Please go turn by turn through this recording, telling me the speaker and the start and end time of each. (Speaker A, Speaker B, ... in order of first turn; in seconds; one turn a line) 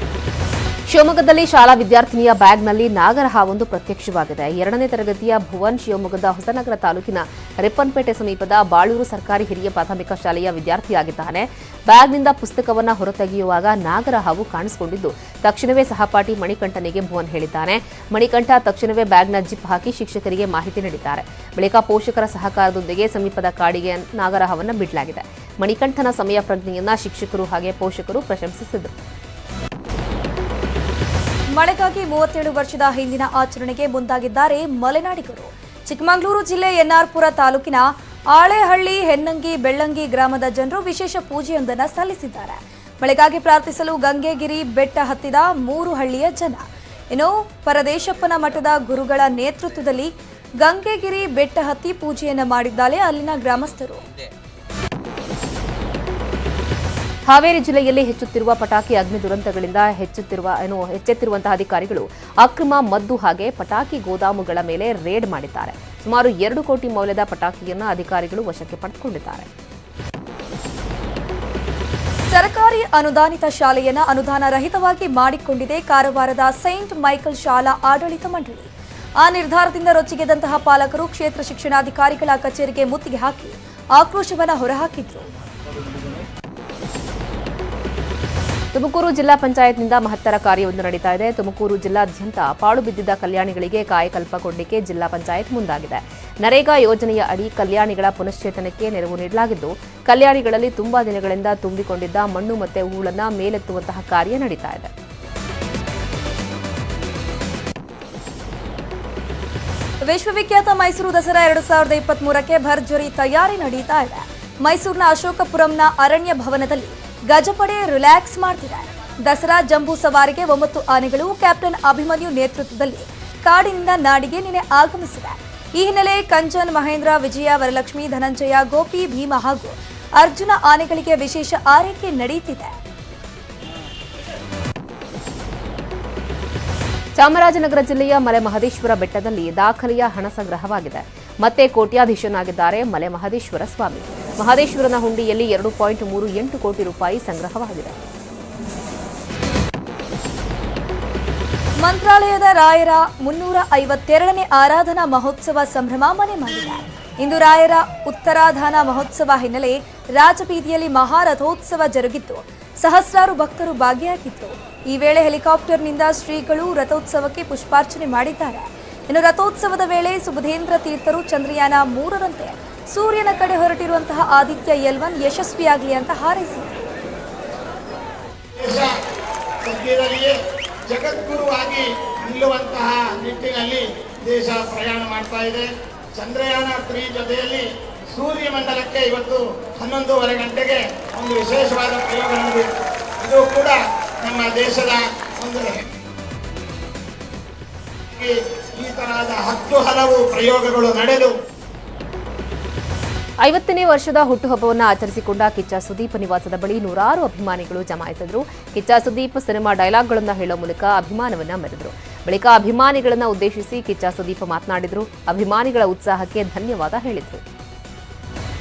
Speaker A: 0.9-28.9
Speaker B: 31.5-50.1
Speaker B: 50.6-54.1
Speaker A: 57.3-69.5
Speaker B: 72.3-85.2
Speaker A: 88.7-104.9
Speaker B: 110.0-132.8
Speaker A: 137.2-147.9
Speaker B: 151.8-176.7
Speaker C: 178.6-178.9
Speaker C: 179.7-180.3
Speaker C: 180.9-192.7
Speaker C: 193.2-195.8
Speaker C: 198.2-201.3
Speaker A: 203.4-217.4